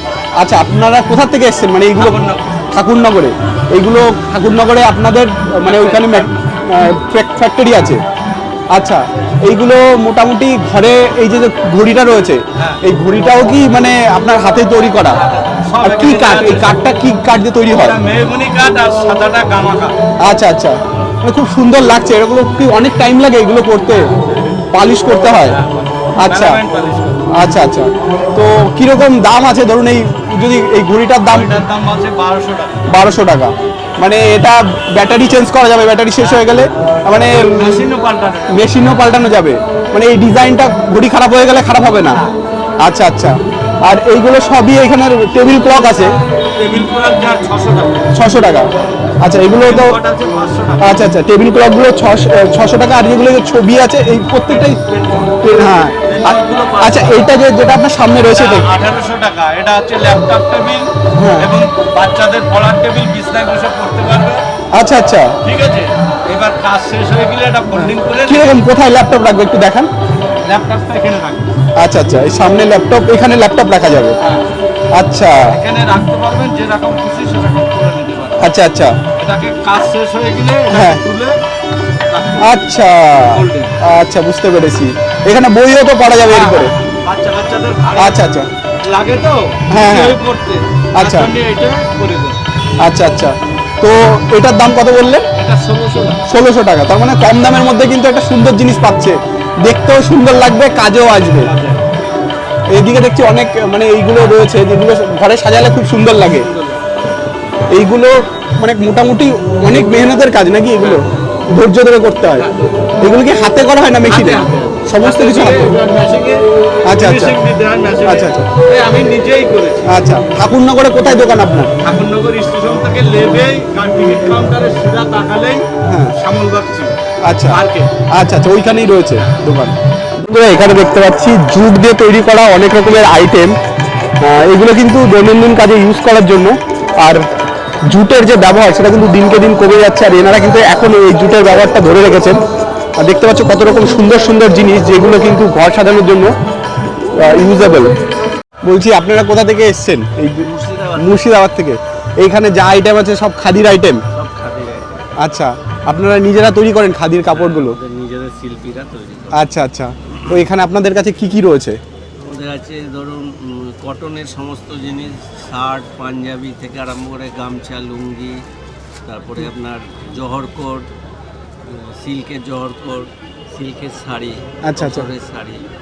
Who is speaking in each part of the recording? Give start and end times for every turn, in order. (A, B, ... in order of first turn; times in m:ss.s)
0:00.4-0:02.2 A
0:02.0-0:02.5 B
0:02.8-0:08.0 A
0:05.6-0:06.3 B
0:08.7-0:15.2 A
0:15.1-0:16.8 B
0:15.8-0:18.0 A
0:17.7-0:19.9 B
0:20.2-0:24.1 A
0:24.7-0:25.6 A
0:25.3-0:27.2 B
0:26.2-0:26.6 A
0:27.3-0:31.5 A
0:31.2-0:32.8 B
0:32.9-0:37.7 A
0:37.6-0:38.7 B
0:38.5-0:42.2 A
0:42.8-0:46.1 A
0:46.6-0:48.0 B
0:48.1-0:48.7 A
0:49.2-0:50.0 A
0:49.5-0:50.8 B
0:50.8-0:54.8 A
0:54.5-0:55.3 B
0:55.4-0:58.6 A
0:56.0-0:57.3 B
0:58.3-1:04.4 B
1:01.1-1:01.5 A
1:04.7-1:05.3 A
1:05.4-1:08.6 B
1:07.8-1:09.9 A
1:10.4-1:11.5 B
1:11.8-1:14.2 A
1:14.2-1:14.5 B
1:15.0-1:15.5 A
1:15.5-1:18.4 B
1:18.4-1:19.0 A
1:19.2-1:21.4 B
1:20.7-1:21.0 A
1:22.1-1:22.6 B
1:22.4-1:26.7 A
1:23.2-1:23.8 B
1:26.2-1:28.2 B
1:28.0-1:28.5 A
1:28.8-1:32.4 B
1:29.7-1:30.2 A
1:31.0-1:31.3 A
1:32.8-1:35.3 A
1:35.4-1:36.2 B
1:36.3-1:41.5 A
1:41.4-1:41.9 B
1:42.7-1:46.5 A
1:46.3-1:47.0 B
1:47.7-1:52.5 A
1:52.4-1:52.6 B
1:53.0-1:55.7 A
1:54.1-1:56.4 B
1:56.8-1:57.4 A
1:57.0-1:59.9 B
1:58.0-1:58.5 A
1:59.9-2:01.7 A
2:01.8-2:05.6 B
2:05.8-2:06.1 A
2:06.2-2:06.9 B
2:07.2-2:07.6 A
2:07.5-2:07.9 B
2:08.1-2:13.6 A
2:14.2-2:17.2 A
2:17.9-2:22.4 A
2:23.0-2:26.3 A
2:27.2-2:27.9 A
2:28.6-2:34.0 A
2:30.4-2:31.2 C
2:34.1-2:34.9 C
2:35.2-2:37.8 A
2:37.3-2:39.5 C
2:39.3-2:41.8 A
2:40.1-2:40.4 C
2:42.2-2:48.4 C
2:49.0-2:50.9 C
2:51.6-2:55.6 C
2:54.6-2:55.1 A